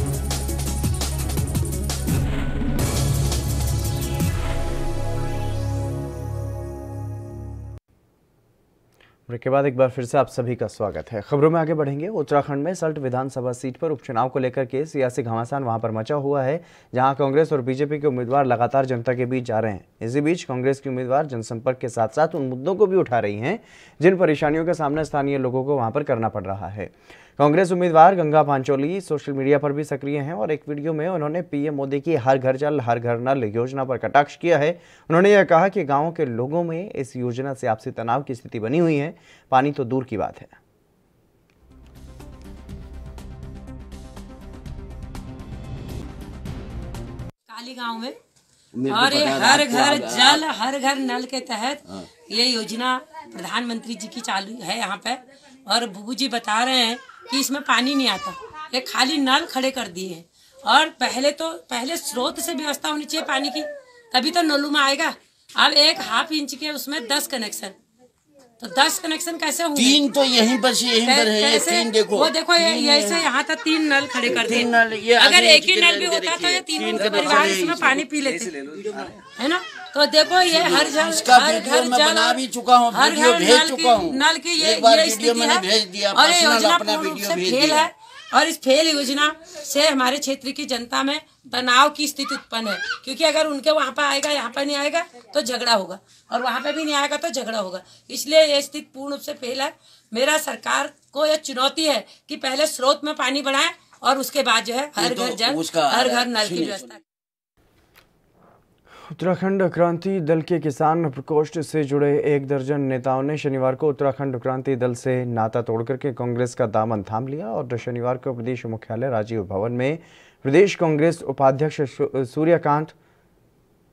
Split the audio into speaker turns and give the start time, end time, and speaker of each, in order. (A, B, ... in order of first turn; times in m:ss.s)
0:09.3-0:40.6 A
0:47.5-0:48.2 B
0:48.8-0:50.4 C
0:48.8-1:07.8 B
1:08.6-1:10.2 B
1:09.7-1:13.3 C
1:11.0-1:47.0 B
1:14.2-1:19.2 C
1:20.5-1:27.9 C
1:45.0-1:46.9 C
1:49.1-2:02.9 A